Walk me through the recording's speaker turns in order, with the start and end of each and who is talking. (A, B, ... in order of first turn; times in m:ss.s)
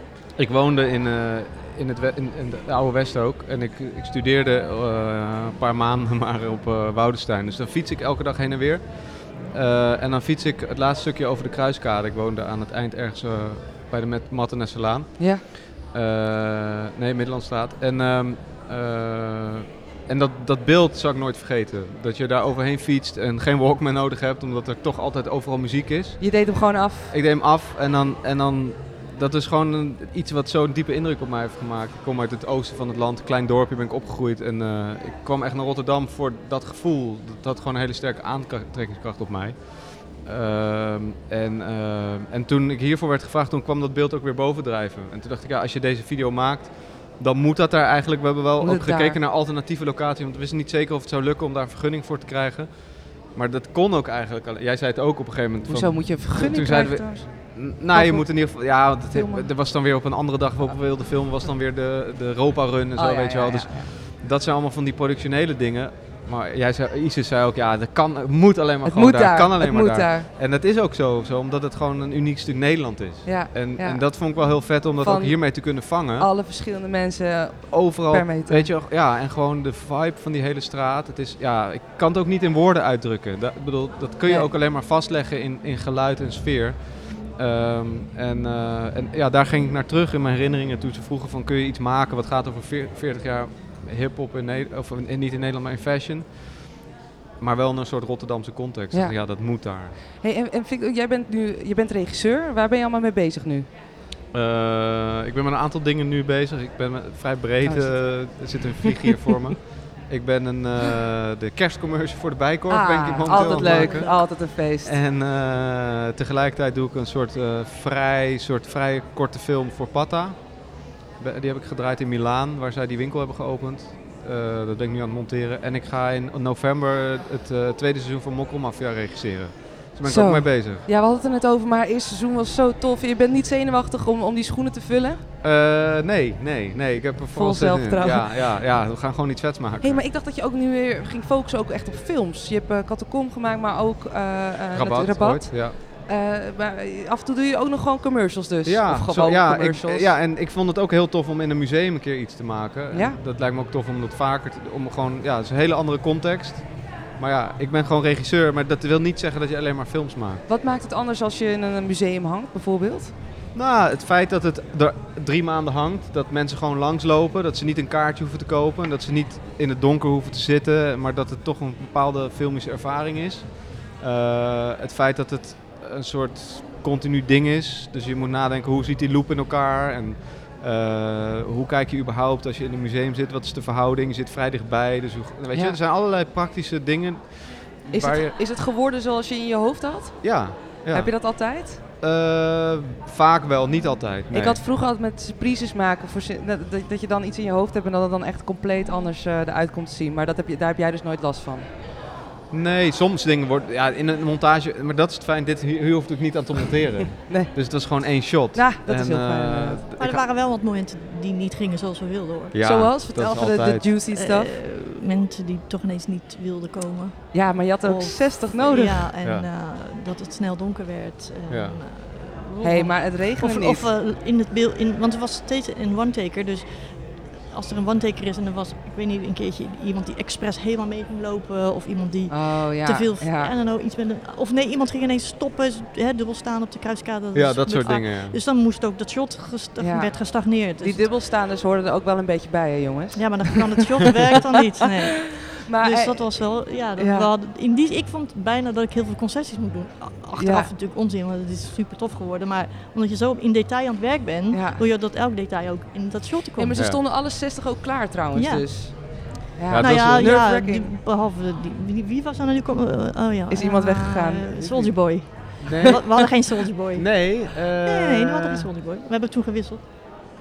0:00.4-0:26.4 A
0:15.2-0:15.4 B
0:26.2-0:27.1 B
0:27.1-1:16.3 A
0:48.6-0:49.2 B
0:55.7-0:58.5 B
0:59.1-0:59.5 B
1:03.0-1:03.9 B
1:08.8-1:10.3 B
1:13.2-1:14.0 B
1:15.0-1:18.7 B
1:17.7-1:36.4 A
1:37.4-1:40.0 A
1:40.2-1:43.7 B
1:44.3-2:00.4 A
1:47.6-1:49.1 B
1:52.7-1:55.0 B
1:53.3-1:54.2 C
2:01.2-2:10.9 A
2:10.0-2:15.2 B
2:15.4-2:20.0 A
2:17.3-2:18.6 B
2:19.8-2:30.1 B
2:24.7-2:25.8 A
2:28.6-2:36.7 A
2:32.9-2:33.2 B
2:37.2-2:40.4 A
2:40.5-2:43.1 B
2:43.6-3:08.3 A
3:05.5-3:05.8 B
3:07.9-3:11.8 B
3:10.2-3:11.2 A
3:12.0-3:14.6 A
3:14.3-3:21.7 B
3:22.5-3:30.2 A
3:27.2-3:27.5 B
3:28.5-3:29.8 B
3:30.0-3:32.6 C
3:32.5-3:33.9 A
3:32.6-3:34.5 B
3:34.1-3:46.8 C
3:37.3-3:39.1 B
3:41.5-3:41.8 A
3:42.6-3:43.9 B
3:47.5-4:01.1 C
3:52.3-3:53.5 B
3:57.3-3:58.4 A
3:59.8-4:00.2 B
4:00.8-4:04.9 B
4:03.2-4:16.8 C
4:05.6-4:06.4 B
4:07.0-4:07.3 B
4:10.4-4:10.7 B
4:14.5-4:14.8 B
4:16.6-4:20.9 B
4:18.4-4:29.8 C
4:19.7-4:20.3 A
4:23.5-4:25.0 B
4:25.6-4:26.0 A
4:27.0-4:28.7 A